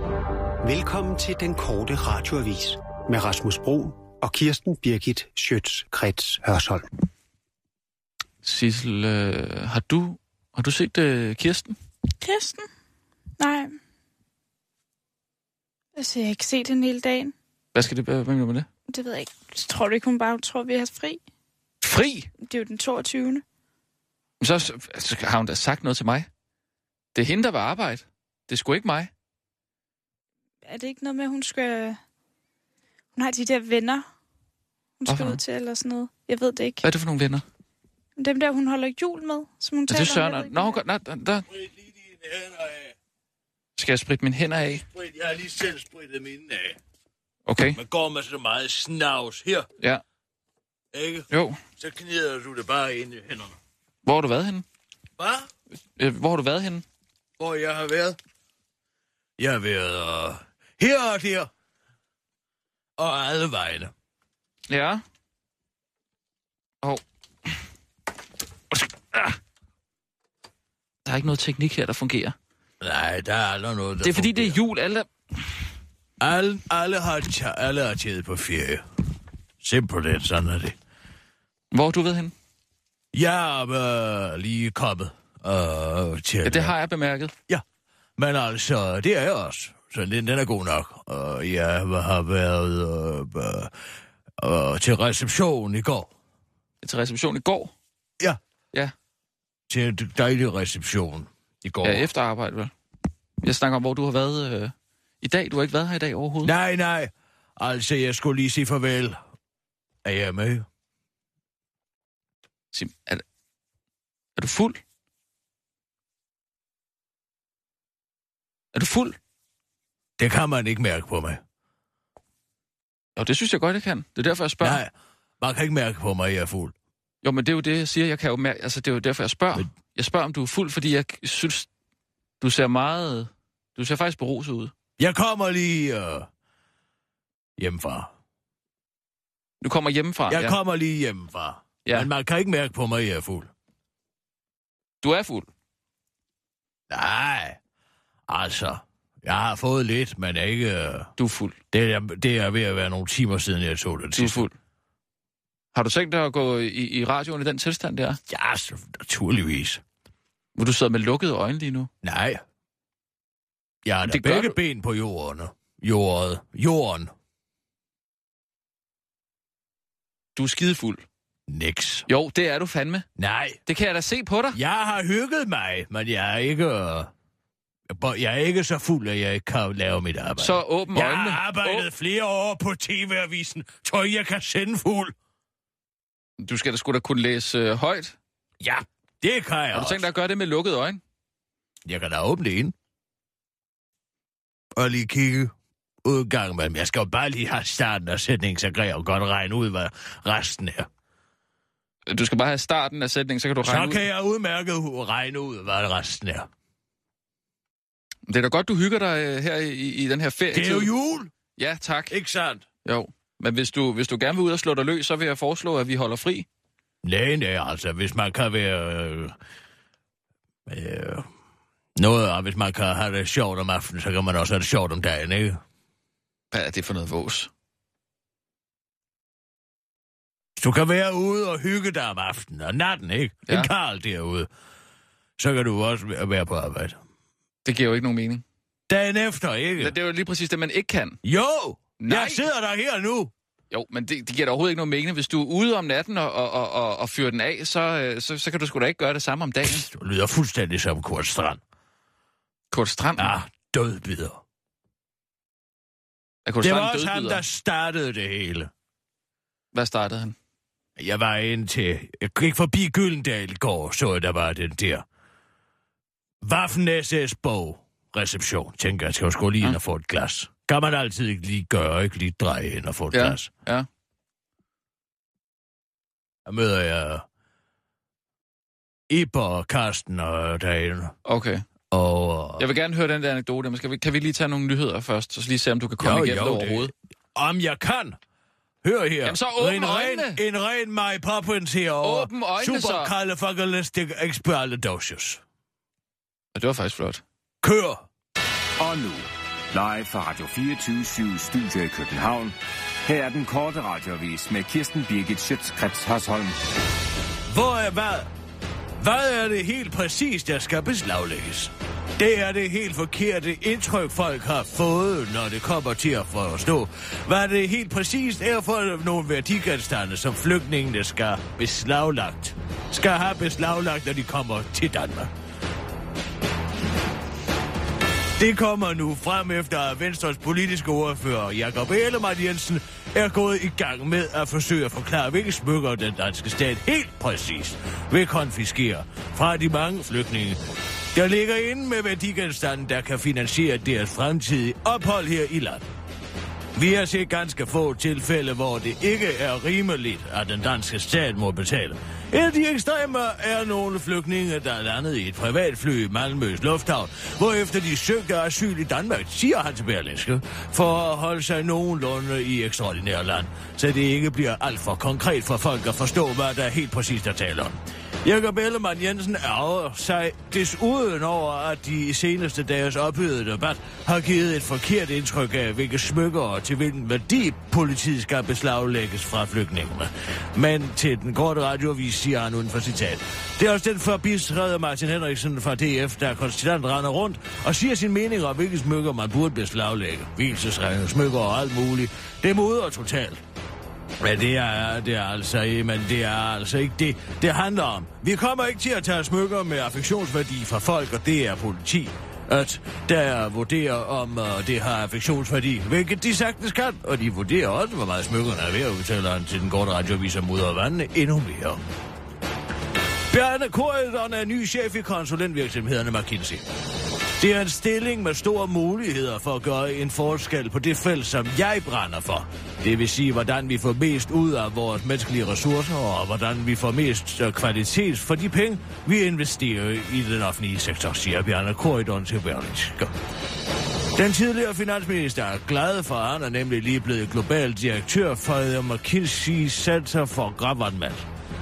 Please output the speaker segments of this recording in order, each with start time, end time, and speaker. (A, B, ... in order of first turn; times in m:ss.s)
0:00.6-0:06.9 A
0:08.4-0:11.8 B
0:12.2-0:12.7 C
0:13.4-0:13.8 C
0:16.0-0:17.3 C
0:17.7-0:18.7 B
0:18.9-0:21.2 C
0:21.8-0:22.3 B
0:22.4-0:23.4 C
0:24.4-0:26.3 B
0:27.1-0:29.1 B
0:30.7-0:32.0 C
0:33.1-0:34.0 C
0:35.0-0:36.8 C
0:35.1-0:35.4 B
0:36.8-0:37.4 B
0:38.2-0:40.8 C
0:39.9-0:41.5 B
0:41.5-0:43.0 D
0:43.8-0:44.8 B
0:44.8-0:46.8 D
0:47.5-0:47.8 B
0:47.7-0:49.7 D
0:50.9-0:53.6 D
0:51.3-0:51.6 B
0:54.0-0:54.6 B
0:55.2-0:55.5 D
0:56.0-0:56.8 B
0:57.4-0:58.2 D
0:59.4-1:01.5 D
1:03.0-1:03.9 D
1:04.7-1:05.0 B
1:06.8-1:07.5 B
1:08.7-1:09.4 B
1:11.0-1:12.4 B
1:12.8-1:14.6 D
1:14.0-1:15.1 B
1:16.2-1:18.8 D
1:19.6-1:20.8 D
1:21.7-1:22.3 B
1:23.1-1:26.7 D
1:26.4-1:27.3 B
1:28.2-1:33.7 D
1:34.4-1:36.1 D
1:36.8-1:37.7 B
1:39.7-1:42.1 D
1:41.8-1:42.7 B
1:43.4-1:46.5 B
1:46.4-1:49.2 D
1:50.0-1:50.6 D
1:52.7-1:53.2 B
1:54.4-1:54.8 B
1:58.7-1:59.2 B
2:00.2-2:01.4 D
2:03.2-2:04.8 B
2:04.6-2:06.7 D
2:07.2-2:11.7 B
2:12.4-2:14.7 B
2:15.0-2:16.3 D
2:17.6-2:18.1 D
2:19.6-2:20.6 B
2:20.3-2:23.5 D
2:21.8-2:22.1 B
2:25.0-2:25.5 B
2:26.9-2:27.6 D
2:28.3-2:31.1 D
2:31.2-2:31.6 B
2:31.7-2:34.4 D
2:34.2-2:34.5 B
2:35.7-2:38.2 B
2:38.3-2:39.8 D
2:40.6-2:41.9 B
2:42.0-2:42.4 D
2:43.8-2:47.1 D
2:44.0-2:44.6 B
2:50.3-2:51.0 B
2:51.5-2:52.0 D
2:52.1-2:53.0 B
2:53.2-2:53.6 D
2:53.6-2:54.6 B
2:54.5-2:57.1 D
2:57.9-3:05.1 D
3:00.4-3:01.9 B
3:06.4-3:08.2 B
3:08.6-3:10.1 D
3:09.7-3:11.0 B
3:11.8-3:12.7 D
3:14.7-3:15.5 D
3:16.0-3:20.9 D
3:22.1-3:24.0 B
3:23.6-3:26.5 D
3:28.3-3:30.9 B
3:30.5-3:31.3 D
3:31.6-3:32.2 B
3:32.1-3:32.6 D
3:32.8-3:36.5 B
3:37.0-3:39.4 D
3:40.7-3:41.3 D
3:42.0-3:45.6 D
3:46.5-3:47.5 B
3:50.6-3:54.5 D
3:55.4-3:57.0 D
3:57.6-3:58.4 B
3:58.9-3:59.9 D
3:59.8-4:01.2 B
4:01.2-4:03.3 D
4:02.0-4:02.4 B
4:03.7-4:09.8 B
4:09.6-4:11.6 D
4:12.7-4:13.3 B
4:13.2-4:14.4 D
4:16.4-4:17.4 B
4:16.6-4:18.7 D
4:19.7-4:20.4 B
4:21.0-4:25.0 D
4:26.4-4:33.5 D
4:33.1-4:33.9 B
4:36.4-4:37.2 D
4:39.1-4:41.1 D
4:41.2-4:41.6 B
4:41.9-4:42.7 D
4:42.6-4:46.9 B
4:46.0-4:48.2 D
4:48.8-4:55.4 D
4:49.2-4:50.4 B
4:52.0-4:53.1 B
4:56.5-4:57.2 B
4:57.6-4:58.0 D
4:58.8-5:06.5 E
5:07.5-5:08.3 D
5:09.0-5:25.3 D
5:28.4-5:40.6 D
5:41.1-5:45.8 D
5:46.7-6:33.4 D
6:34.2-6:51.8 D
6:53.3-6:56.6 D
6:57.4-7:13.1 D
7:14.1-7:21.3 D